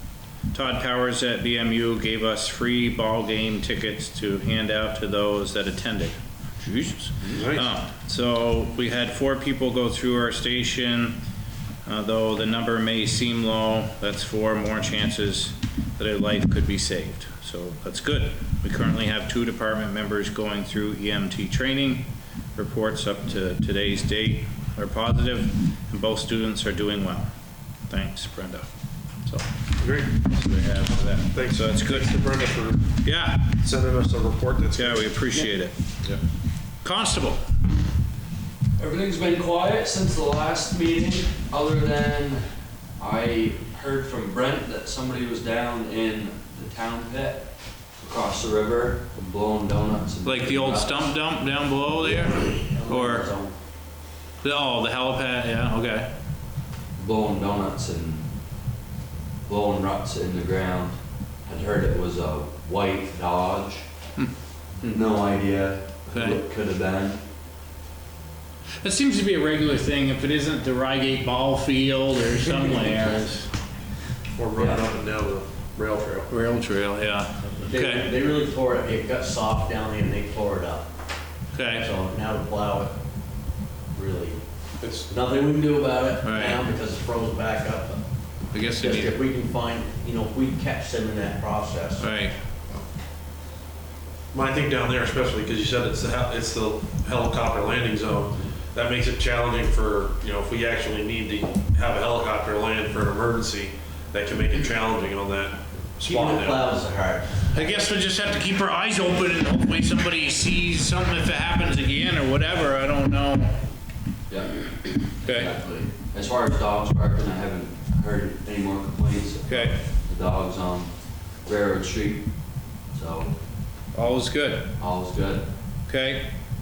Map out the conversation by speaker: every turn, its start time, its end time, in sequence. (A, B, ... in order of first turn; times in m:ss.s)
0:00.5-0:11.2 A
0:07.3-0:07.7 B
0:11.9-0:27.3 A
0:27.9-0:28.7 A
0:29.8-0:32.9 B
0:30.2-0:32.1 A
0:33.0-0:33.5 A
0:33.6-0:35.3 B
0:34.7-0:35.8 A
0:36.8-0:37.4 A
0:38.8-0:42.5 C
0:43.0-0:47.5 C
0:48.0-0:51.1 C
0:50.2-0:53.3 A
0:52.0-0:53.5 D
0:54.4-0:56.1 A
0:57.0-0:58.3 C
0:59.5-1:03.8 C
1:04.9-1:07.2 C
1:06.1-1:06.4 A
1:08.8-1:13.5 A
1:14.4-1:16.3 B
1:14.6-1:14.8 C
1:16.3-1:18.1 A
1:17.4-1:20.9 D
1:21.5-1:21.9 A
1:21.8-1:22.9 D
1:23.9-1:24.4 D
1:24.8-1:25.1 B
1:25.1-1:28.0 D
1:26.2-1:26.6 A
1:28.5-1:29.2 A
1:28.6-1:32.2 D
1:32.0-1:32.3 A
1:34.3-1:46.6 B
1:46.0-1:47.9 D
1:47.5-1:53.6 A
1:54.3-2:00.9 C
1:55.2-1:55.5 A
1:59.5-1:59.8 A
2:01.5-2:02.2 C
2:02.9-2:03.3 C
2:03.9-2:04.7 A
2:04.8-2:05.4 C
2:05.9-2:06.3 A